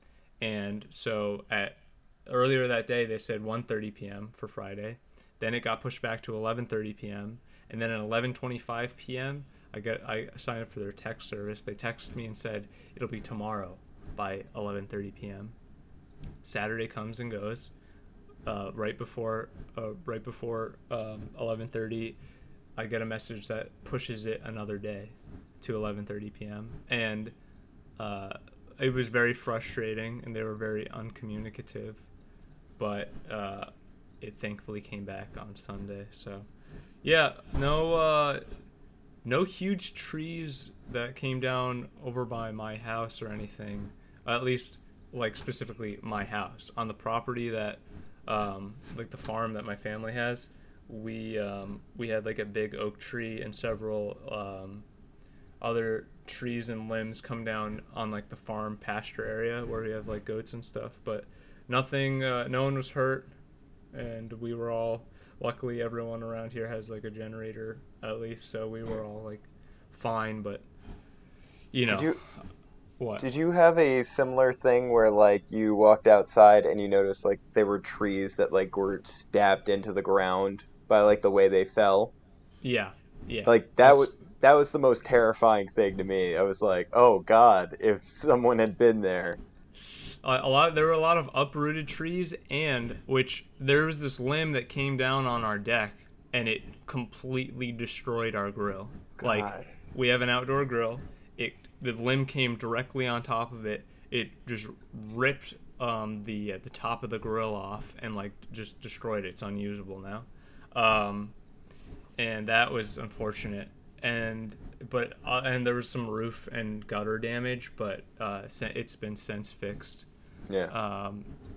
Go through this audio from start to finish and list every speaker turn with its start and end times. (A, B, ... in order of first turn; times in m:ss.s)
0:00.4-0:15.6 A
0:16.4-0:17.7 A
0:18.5-0:22.2 A
0:22.8-0:27.3 A
0:28.0-0:32.0 A
0:32.8-0:33.7 A
0:34.2-0:36.5 A
0:37.0-0:38.5 A
0:39.2-0:54.9 A
0:55.6-1:03.3 A
1:03.9-1:10.6 A
1:11.7-1:12.1 A
1:11.9-1:12.2 B
1:13.0-1:13.2 A
1:13.2-1:22.1 B
1:22.6-1:24.1 A
1:23.4-1:29.4 B
1:30.2-1:51.4 A
1:39.2-1:39.7 B
1:52.2-2:00.1 A
2:00.7-2:01.3 A